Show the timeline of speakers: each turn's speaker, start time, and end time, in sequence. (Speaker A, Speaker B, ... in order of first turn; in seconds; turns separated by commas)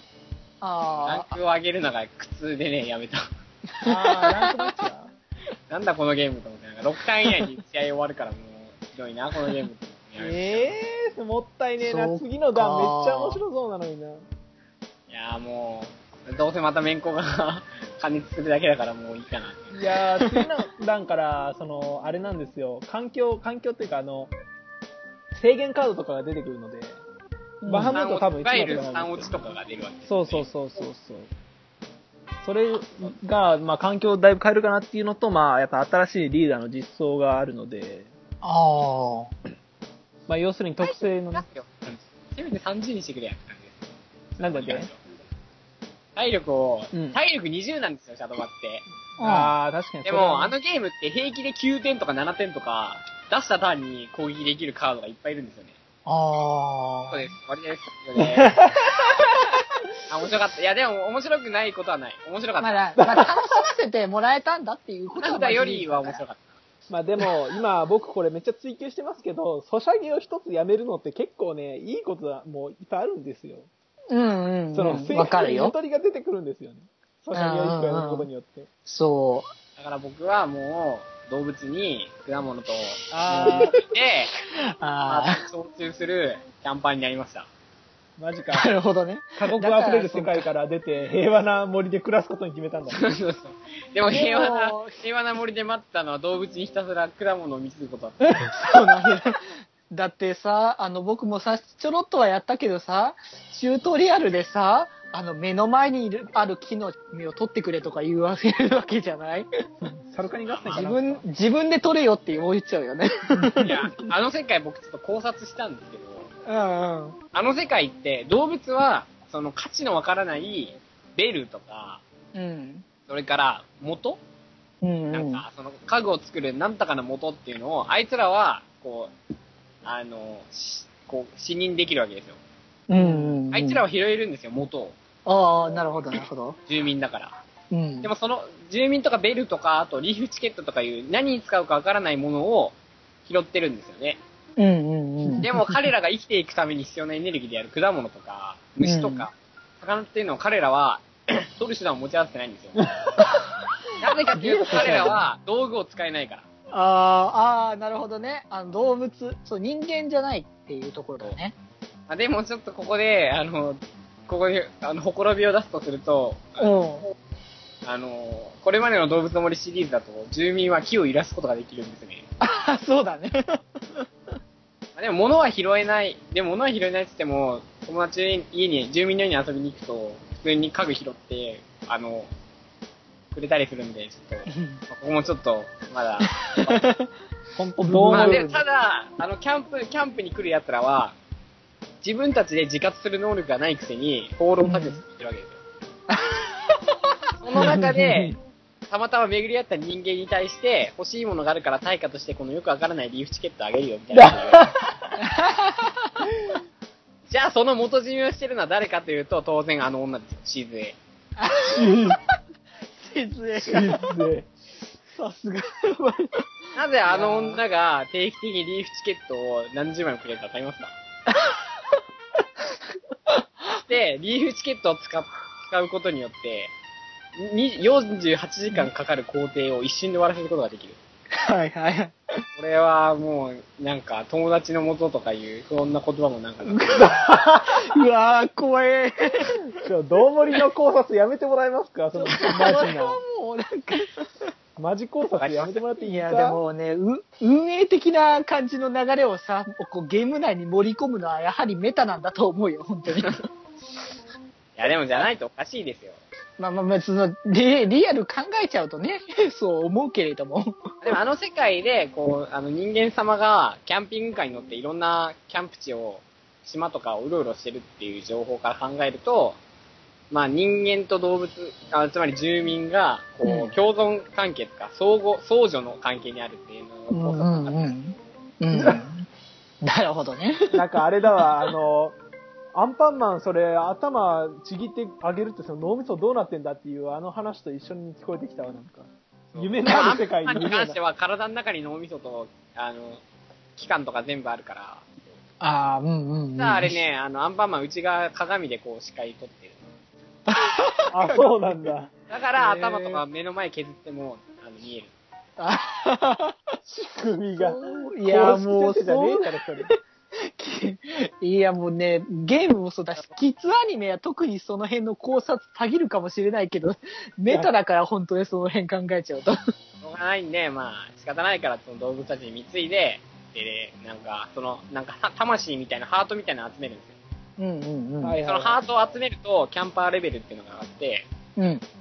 Speaker A: 0.6-1.3, Speaker B: 1.0-3.2, Speaker A: 3.8-4.8, Speaker C: 3.8-5.1, Speaker B: 5.7-10.7, Speaker C: 10.2-14.3, Speaker A: 11.8-13.4, Speaker B: 15.1-19.8, Speaker C: 19.7-24.3, Speaker C: 25.3-27.0, Speaker A: 27.6-28.0, Speaker C: 27.7-29.6, Speaker B: 27.9-30.5, Speaker C: 30.1-31.3, Speaker C: 32.4-38.1, Speaker A: 38.4-39.3, Speaker C: 40.3-41.5, Speaker B: 40.8-45.0, Speaker C: 44.4-44.9, Speaker B: 46.2-48.9, Speaker C: 46.9-47.2, Speaker A: 49.2-49.5, Speaker C: 49.2-50.5, Speaker B: 50.0-55.8, Speaker A: 56.1-57.3, Speaker B: 57.1-58.7, Speaker C: 58.2-58.7, Speaker B: 60.1-62.8, Speaker A: 62.6-66.2, Speaker C: 63.0-63.6, Speaker B: 65.2-66.6, Speaker C: 66.9-73.7, Speaker A: 74.1-75.7, Speaker C: 74.7-78.7, Speaker A: 77.3-78.3, Speaker A: 78.9-79.5, Speaker B: 79.8-84.3, Speaker C: 83.1-83.8, Speaker A: 83.3-83.8, Speaker A: 84.5-85.4, Speaker B: 85.1-87.5, Speaker C: 88.2-88.7, Speaker A: 88.5-90.5, Speaker C: 89.4-93.0, Speaker B: 92.9-98.5, Speaker A: 94.1-95.0, Speaker A: 98.5-109.5, Speaker C: 109.8-111.2, Speaker B: 110.5-110.9, Speaker A: 110.7-114.1, Speaker B: 113.6-116.3, Speaker A: 116.5-117.2, Speaker B: 117.3-122.0, Speaker A: 122.3-122.8, Speaker B: 123.1-124.2, Speaker A: 124.8-125.5, Speaker B: 125.1-129.1, Speaker B: 129.8-132.4, Speaker A: 132.9-133.8, Speaker C: 133.0-133.3, Speaker B: 133.5-134.9, Speaker A: 135.3-136.6, Speaker B: 136.7-137.4, Speaker A: 137.7-138.1, Speaker B: 138.0-142.8, Speaker B: 143.3-144.2, Speaker A: 144.6-145.7, Speaker B: 145.4-152.9, Speaker A: 148.8-149.3, Speaker C: 152.8-153.3, Speaker B: 154.0-156.5, Speaker C: 154.4-155.2, Speaker A: 154.7-155.1, Speaker A: 156.7-161.6, Speaker B: 162.1-166.7, Speaker A: 166.6-167.1, Speaker B: 167.8-172.2, Speaker A: 172.4-174.1, Speaker B: 175.0-182.3, Speaker B: 183.3-186.9, Speaker A: 184.5-184.8, Speaker A: 186.3-187.1, Speaker C: 187.6-188.6, Speaker A: 187.8-188.5, Speaker B: 188.1-191.2, Speaker B: 192.0-195.6, Speaker A: 194.6-195.0, Speaker A: 196.1-197.1, Speaker B: 197.4-198.3, Speaker C: 197.6-198.4, Speaker B: 198.9-204.7, Speaker C: 204.1-204.9, Speaker A: 205.2-206.3, Speaker B: 207.3-211.0, Speaker A: 211.4-212.2, Speaker C: 211.7-212.2, Speaker A: 213.0-214.1, Speaker C: 213.6-214.5, Speaker A: 215.1-216.5, Speaker B: 216.8-220.9, Speaker A: 217.1-217.6, Speaker B: 223.7-226.7, Speaker B: 227.4-231.0, Speaker A: 231.3-232.2, Speaker B: 232.6-237.1, Speaker A: 236.7-239.7, Speaker C: 237.0-237.8, Speaker C: 239.8-243.2, Speaker A: 242.2-244.3, Speaker C: 244.8-246.6, Speaker B: 245.4-245.8, Speaker A: 246.0-253.4, Speaker B: 254.8-256.2, Speaker A: 256.6-261.1, Speaker B: 261.0-269.6, Speaker B: 270.3-277.8, Speaker A: 273.4-273.8, Speaker A: 277.1-279.3, Speaker C: 278.7-279.0, Speaker A: 279.8-281.4, Speaker C: 280.7-282.2, Speaker C: 282.8-291.0, Speaker B: 289.5-293.2, Speaker A: 289.9-290.2, Speaker B: 293.8-295.3, Speaker A: 295.6-297.0, Speaker B: 296.6-299.9, Speaker A: 300.5-301.8, Speaker C: 301.1-302.1, Speaker B: 302.3-305.1, Speaker A: 302.6-303.2, Speaker A: 305.6-306.6, Speaker C: 306.9-309.9, Speaker A: 307.6-319.6, Speaker B: 320.0-327.2, Speaker A: 327.6-328.4, Speaker C: 328.2-328.8, Speaker B: 328.4-331.3, Speaker A: 331.6-331.8